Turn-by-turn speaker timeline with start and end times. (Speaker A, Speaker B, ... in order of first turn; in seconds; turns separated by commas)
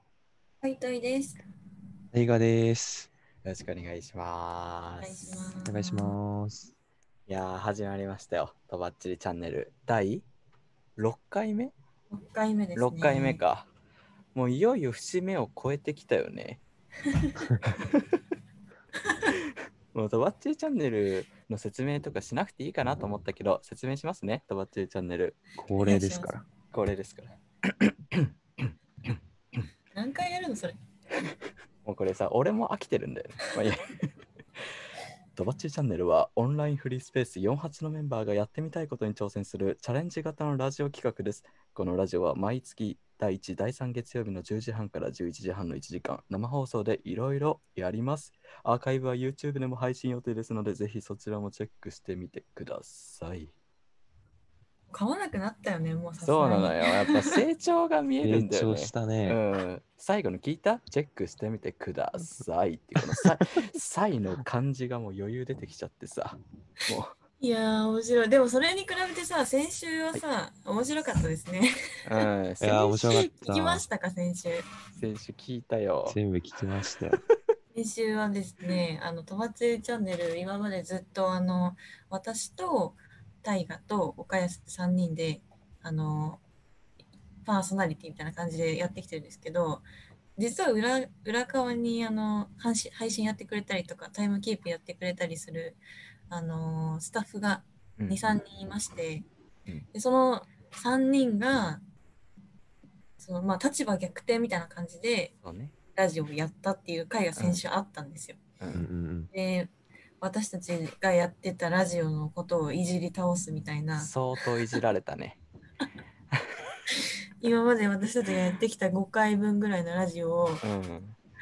Speaker A: 0.6-1.4, Speaker B: 2.1-3.1, Speaker C: 3.4-5.5, Speaker A: 5.0-6.1, Speaker B: 5.6-6.7, Speaker C: 7.3-10.2, Speaker C: 11.0-11.7, Speaker A: 12.1-13.4, Speaker C: 12.8-13.7, Speaker C: 14.3-16.6, Speaker A: 17.1-17.4, Speaker C: 17.7-18.0, Speaker C: 19.3-25.4, Speaker B: 25.6-26.4, Speaker A: 25.8-26.3, Speaker C: 26.7-29.2, Speaker A: 29.9-30.8, Speaker C: 31.8-34.1, Speaker C: 35.4-53.5, Speaker A: 54.9-57.4, Speaker C: 56.2-67.2, Speaker B: 58.2-59.4, Speaker A: 67.4-71.7, Speaker C: 72.0-72.8, Speaker B: 72.6-73.8, Speaker A: 72.6-74.7, Speaker C: 74.9-76.2, Speaker B: 76.1-77.2, Speaker A: 77.7-86.4, Speaker A: 87.4-89.8, Speaker A: 90.4-99.2, Speaker C: 98.0-98.3, Speaker A: 99.9-101.8, Speaker A: 103.2-105.3, Speaker C: 105.4-105.7, Speaker A: 106.0-108.4, Speaker C: 108.6-108.8, Speaker B: 108.7-109.3, Speaker A: 109.3-114.5, Speaker C: 114.0-115.4, Speaker A: 117.4-120.6, Speaker C: 120.6-121.2